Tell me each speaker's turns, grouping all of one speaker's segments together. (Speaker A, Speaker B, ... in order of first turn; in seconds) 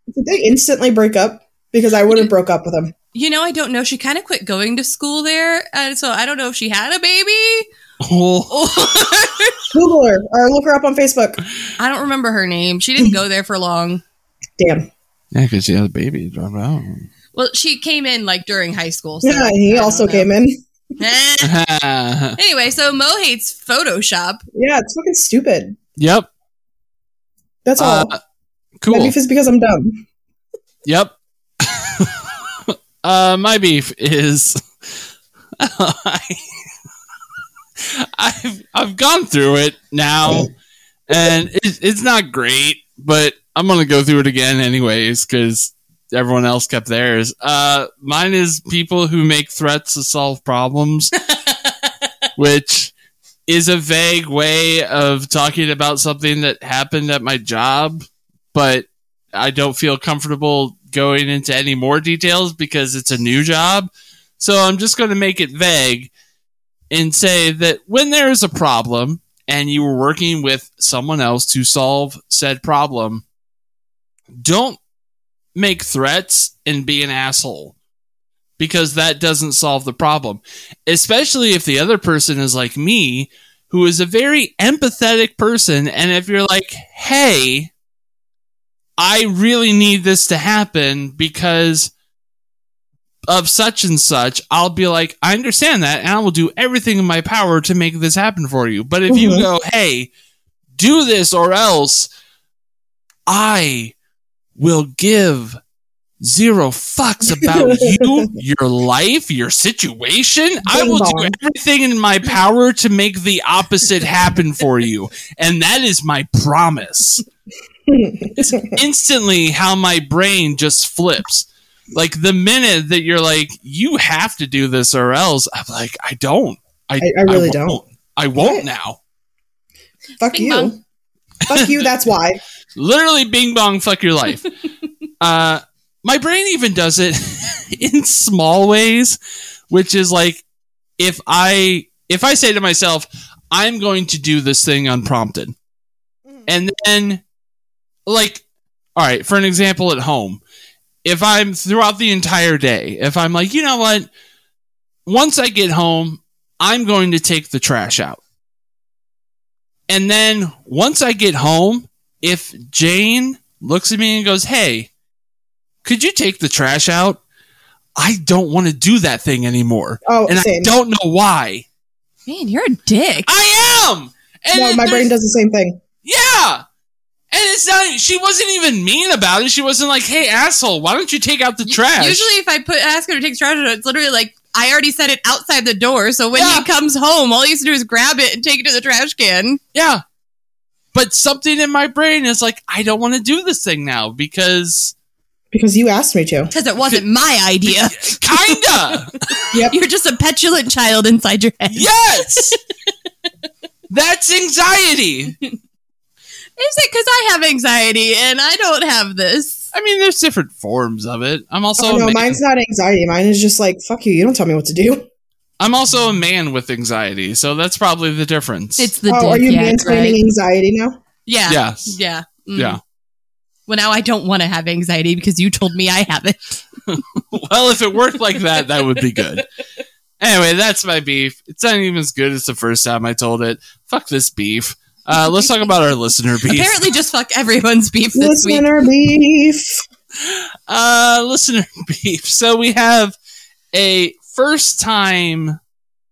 Speaker A: 0.1-2.9, 9.7-11.4, 14.6-14.9, 19.2-20.6, 24.5-25.8, 27.6-28.1, 28.9-30.0, 99.1-99.5, 107.4-108.3, 110.7-111.3, 117.9-118.8, 127.0-127.8, 128.4-128.6, 130.2-130.8, 131.5-132.4, 170.0-170.7, 174.5-175.8, 195.5-196.5, 211.8-215.1, 219.1-221.0, 238.1-239.8
Speaker B: 3.1-7.7, 8.5-9.6, 11.8-14.0, 17.3-20.3, 21.0-21.5, 22.4-24.4, 51.4-51.7, 130.3-130.7, 172.3-173.3, 181.6-189.6, 196.5-198.8, 199.4-202.5, 206.6-209.6, 218.8-220.2, 221.2-222.8, 223.7-226.6, 235.2-235.5, 236.5-238.7
Speaker C: 8.0-8.8, 15.3-17.1, 21.4-22.4, 26.0-26.3, 27.8-28.2, 28.8-29.1, 30.8-34.6, 35.6-36.4, 37.8-40.5, 41.1-51.1, 52.4-52.9, 53.5-66.1, 66.9-73.2, 74.4-74.8, 75.5-77.8, 78.6-87.7, 89.0-91.9, 93.3-100.1, 100.8-102.1, 103.3-103.9, 104.6-105.6, 106.2-117.2, 118.4-129.0, 131.5-131.8, 132.8-134.5, 135.2-139.2, 139.7-140.4, 141.0-145.5, 146.5-147.2, 148.1-148.4, 148.9-150.4, 151.0-154.1, 155.1-158.2, 159.9-164.9, 165.8-167.2, 167.9-171.7, 173.3-175.1, 176.0-176.6, 177.3-182.3, 186.3-186.7, 189.7-190.0, 190.9-194.9, 197.7-199.4, 201.7-202.6, 203.9-205.3, 209.7-212.4, 215.6-218.9, 221.5-222.0, 226.9-229.4, 230.2-236.7, 240.2-243.2, 243.7-245.6